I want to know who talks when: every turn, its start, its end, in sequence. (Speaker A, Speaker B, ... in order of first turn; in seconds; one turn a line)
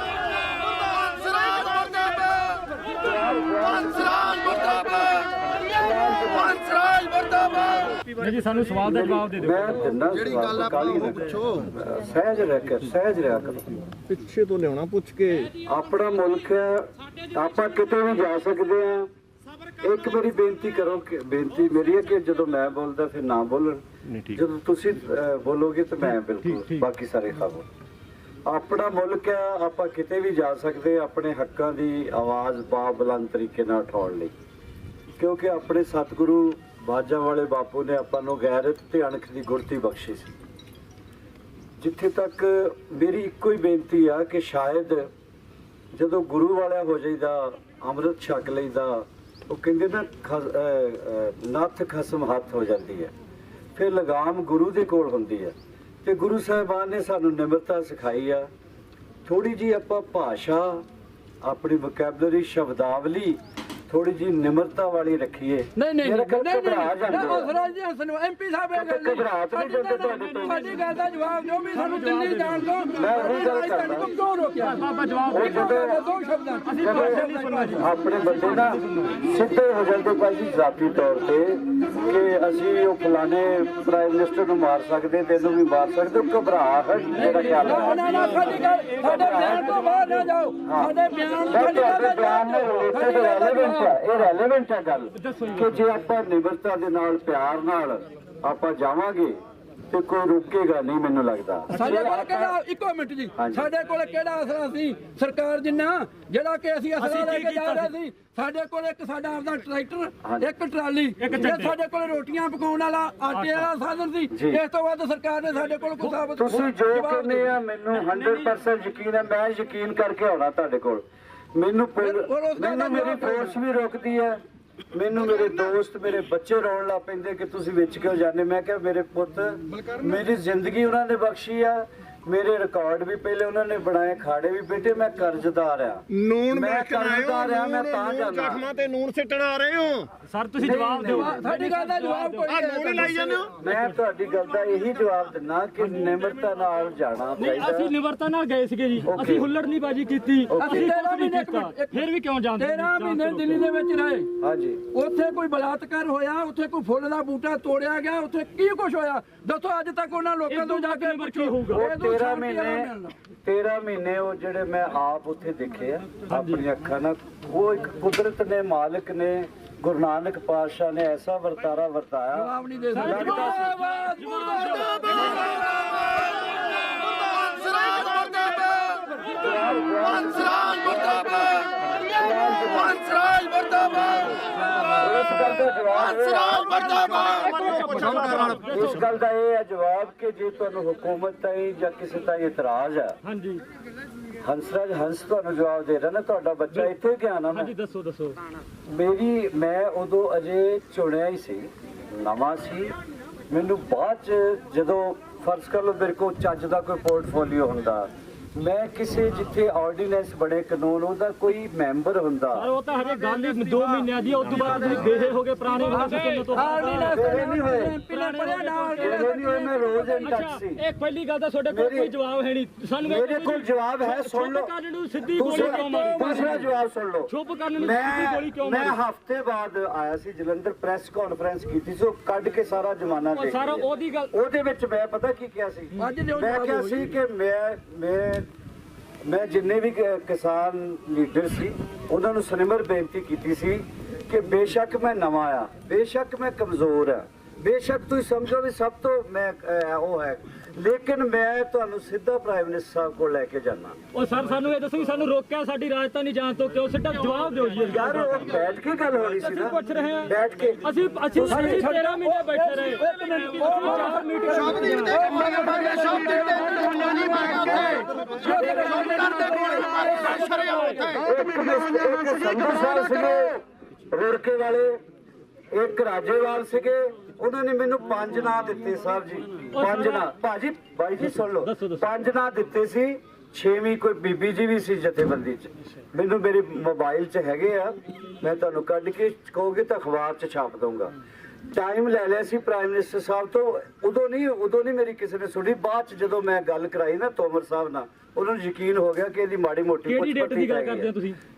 Speaker A: 1.3-2.6
Speaker B: 3.0-7.2
Speaker C: 8.0-9.8
Speaker B: 8.8-13.8
Speaker D: 14.0-15.5
Speaker B: 15.6-19.1
Speaker B: 19.8-27.7
Speaker B: 28.5-34.3
Speaker B: 35.2-40.3
Speaker B: 41.8-45.1
Speaker B: 45.9-53.1
Speaker B: 53.8-58.5
Speaker B: 59.2-60.8
Speaker B: 61.4-67.5
Speaker A: 65.8-77.8
Speaker B: 68.7-70.7
Speaker C: 70.2-70.8
Speaker C: 71.7-72.7
Speaker B: 73.0-74.1
Speaker C: 74.7-75.5
Speaker B: 75.3-76.1
Speaker C: 76.7-79.0
Speaker B: 76.8-88.2
Speaker C: 87.1-90.2
Speaker A: 87.7-94.0
Speaker B: 89.0-89.8
Speaker B: 90.6-99.4
Speaker C: 95.2-95.7
Speaker B: 99.9-102.6
Speaker A: 101.7-117.5
Speaker B: 103.3-103.7
Speaker C: 107.0-107.9
Speaker B: 110.2-110.5
Speaker C: 111.2-111.8
Speaker C: 113.4-113.7
Speaker B: 114.3-114.6
Speaker B: 116.3-121.0
Speaker B: 121.5-124.4
Speaker A: 122.0-123.5
Speaker B: 124.9-138.7
Speaker D: 136.2-140.1
Speaker C: 140.2-142.5
Speaker B: 140.6-141.5
Speaker A: 141.1-143.5
Speaker D: 142.5-143.6
Speaker B: 143.6-147.9
Speaker C: 147.4-153.6
Speaker B: 149.0-149.5
Speaker B: 150.5-150.9
Speaker A: 150.6-152.0
Speaker A: 152.6-154.3
Speaker B: 154.4-154.9
Speaker A: 154.9-163.2
Speaker C: 160.5-161.8
Speaker B: 161.7-162.9
Speaker B: 163.4-173.7
Speaker C: 166.3-166.6
Speaker A: 172.4-175.4
Speaker C: 172.9-175.7
Speaker C: 177.5-177.8
Speaker A: 177.7-179.1
Speaker B: 179.4-183.2
Speaker C: 183.7-184.4
Speaker B: 184.9-187.0
Speaker C: 187.0-189.1
Speaker D: 187.2-188.7
Speaker B: 188.7-193.2
Speaker C: 193.2-193.6
Speaker B: 194.4-197.7
Speaker C: 197.5-198.4
Speaker B: 198.9-202.9
Speaker B: 203.5-212.7
Speaker C: 212.6-217.2
Speaker A: 215.9-220.1
Speaker B: 217.1-218.0
Speaker C: 218.1-226.6
Speaker B: 219.0-220.8
Speaker B: 221.7-222.1
Speaker B: 223.0-224.7
Speaker B: 225.3-238.5
Speaker A: 225.5-226.6
Speaker C: 227.3-229.0
Speaker C: 233.3-234.3
Speaker A: 236.0-237.1
Speaker B: 239.2-254.0
Speaker C: 254.1-258.4
Speaker B: 257.9-261.9
Speaker C: 259.4-260.3
Speaker C: 260.8-266.7
Speaker A: 261.5-271.1
Speaker C: 270.6-271.1
Speaker B: 271.1-275.0
Speaker B: 275.7-291.1
Speaker C: 279.8-280.3
Speaker C: 281.4-282.0
Speaker B: 291.7-301.1
Speaker C: 300.1-301.4